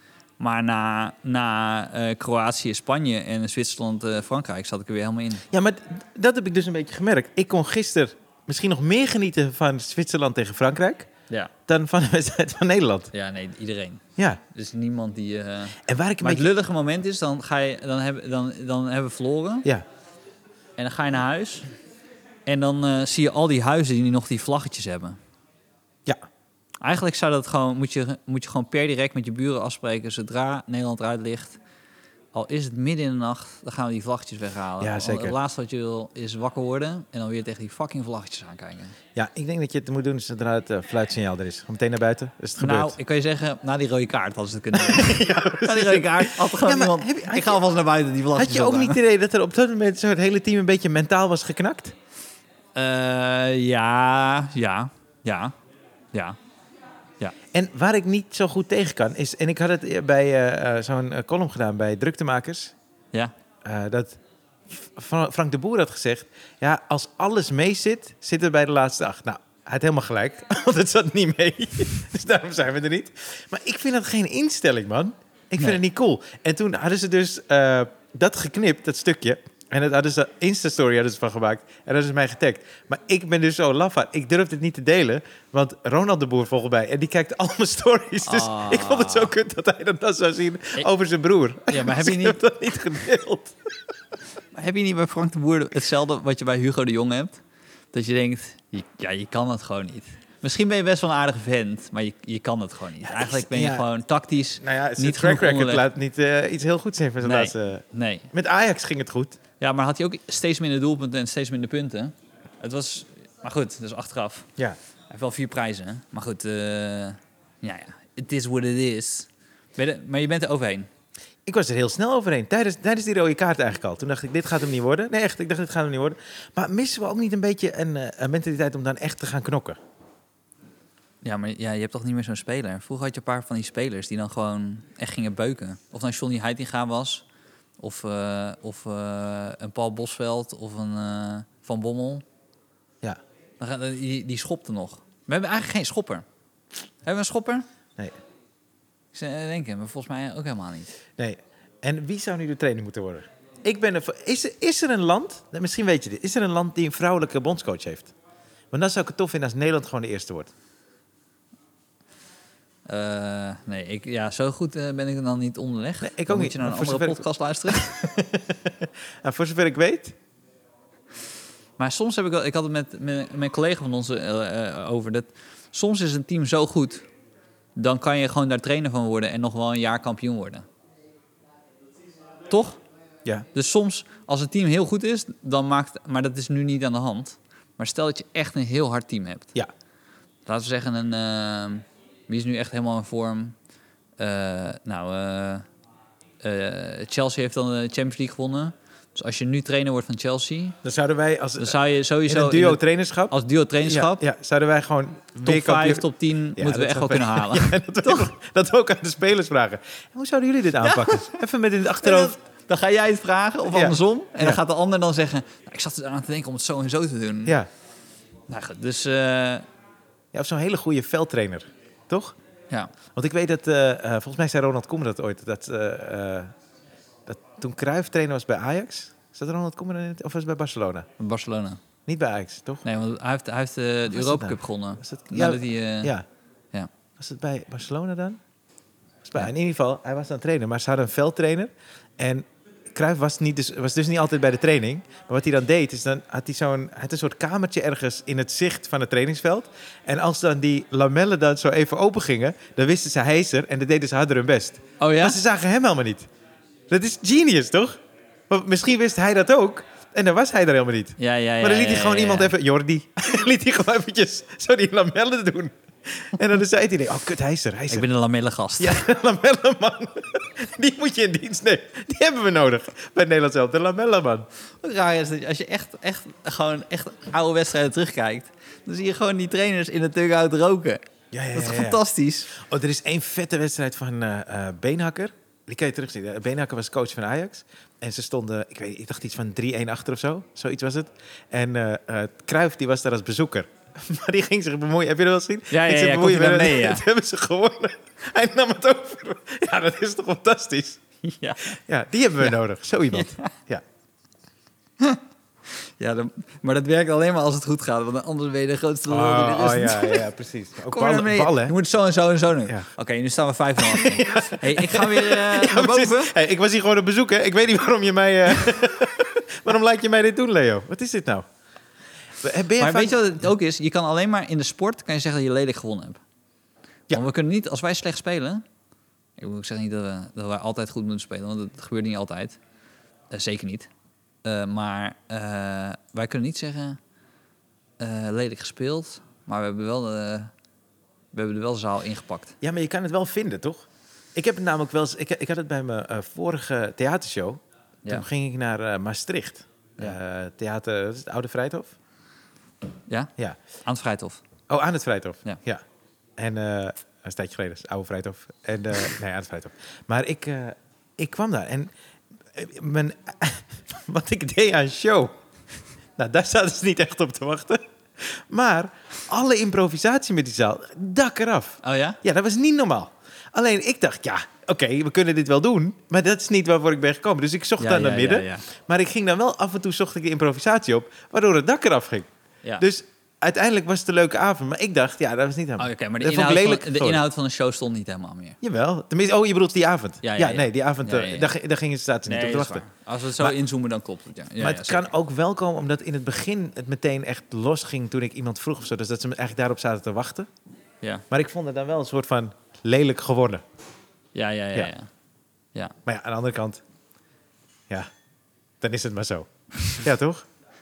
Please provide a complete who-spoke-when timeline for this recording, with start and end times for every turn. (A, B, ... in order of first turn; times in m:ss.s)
0:00.4-0:05.4 A
0:05.5-0:11.1 B
0:11.7-0:13.1 B
0:13.1-0:19.7 A
0:15.9-0:16.5 B
0:20.8-0:21.7 A
0:22.5-0:25.2 A
0:26.8-0:31.6 A
0:32.3-0:39.0 A
0:34.8-0:35.4 B
0:39.2-0:43.0 B
0:42.6-0:49.0 A
0:44.7-0:47.6 B
0:48.4-0:52.0 B
0:52.8-0:55.5 A
0:56.1-0:56.4 A
0:57.5-1:02.7 B
1:03.6-1:04.2 B
1:04.7-1:33.6 B
1:28.2-1:29.3 A
1:31.7-1:32.4 A
1:34.5-1:37.4 A
1:37.9-1:45.8 A
1:43.0-1:43.8 B
1:44.6-1:49.4 B
1:47.2-1:48.3 A
1:49.6-1:54.5 A
1:55.1-2:00.9 A
2:01.5-2:09.8 B
2:11.2-2:17.2 A
2:17.8-2:22.2 A
2:23.6-2:26.2 A
2:27.0-2:27.7 A
2:29.1-2:31.0 A
2:31.2-2:38.1 B
2:38.7-2:40.5 B
2:42.9-2:48.1 A
2:46.0-2:50.2 B
2:51.8-2:57.1 A
2:57.8-3:00.7 A
3:02.5-3:02.8 A
3:03.5-3:09.5 A
3:10.5-3:13.6 A
3:14.2-3:15.7 A
3:16.4-3:20.8 A
3:20.8-3:32.4 B
3:21.6-3:24.2 A
3:25.5-3:28.3 A
3:30.8-3:31.4 A
3:32.0-3:37.6 A
3:33.7-3:34.6 B
3:38.5-3:39.7 A
3:40.3-3:42.4 B
3:43.2-3:46.5 B
3:47.3-3:51.1 B
3:51.2-3:51.8 A
3:52.1-3:52.8 B
3:52.8-3:56.1 A
3:54.1-3:56.2 B
3:57.2-3:58.4 B
3:59.2-4:16.3 B
4:15.0-4:15.4 A
4:16.9-4:18.0 B
4:18.5-4:28.1 B
4:21.2-4:22.5 A
4:27.9-4:29.1 A
4:28.8-4:34.5 B
4:34.8-4:41.0 A
4:41.3-5:01.0 B
4:41.5-4:42.5 A
4:55.7-4:57.0 A
5:01.2-5:01.8 A
5:01.8-5:03.8 B
5:03.1-5:03.5 A
5:06.0-5:10.3 A
5:09.1-5:11.8 B
5:10.9-5:16.4 A
5:13.8-5:21.5 B
5:22.4-5:23.3 B
5:22.8-5:26.2 A
5:27.1-5:28.6 A
5:29.4-5:32.6 A
5:33.3-5:33.9 A
5:34.4-5:37.0 A
5:38.0-5:40.5 A
5:41.3-5:42.6 A
5:42.6-5:52.0 B
5:53.8-5:54.4 A
5:54.7-5:55.8 B
5:56.4-6:01.9 B
6:02.5-6:05.4 B
6:06.2-6:27.2 B
6:11.8-6:12.2 A
6:17.8-6:18.7 A
6:25.8-6:28.6 A
6:28.6-6:32.8 B
6:30.2-6:31.5 A
6:32.3-6:35.1 A
6:34.6-6:40.5 B
6:41.3-6:43.6 B
6:44.4-6:45.1 A
6:46.0-6:46.8 B
6:48.8-6:50.5 B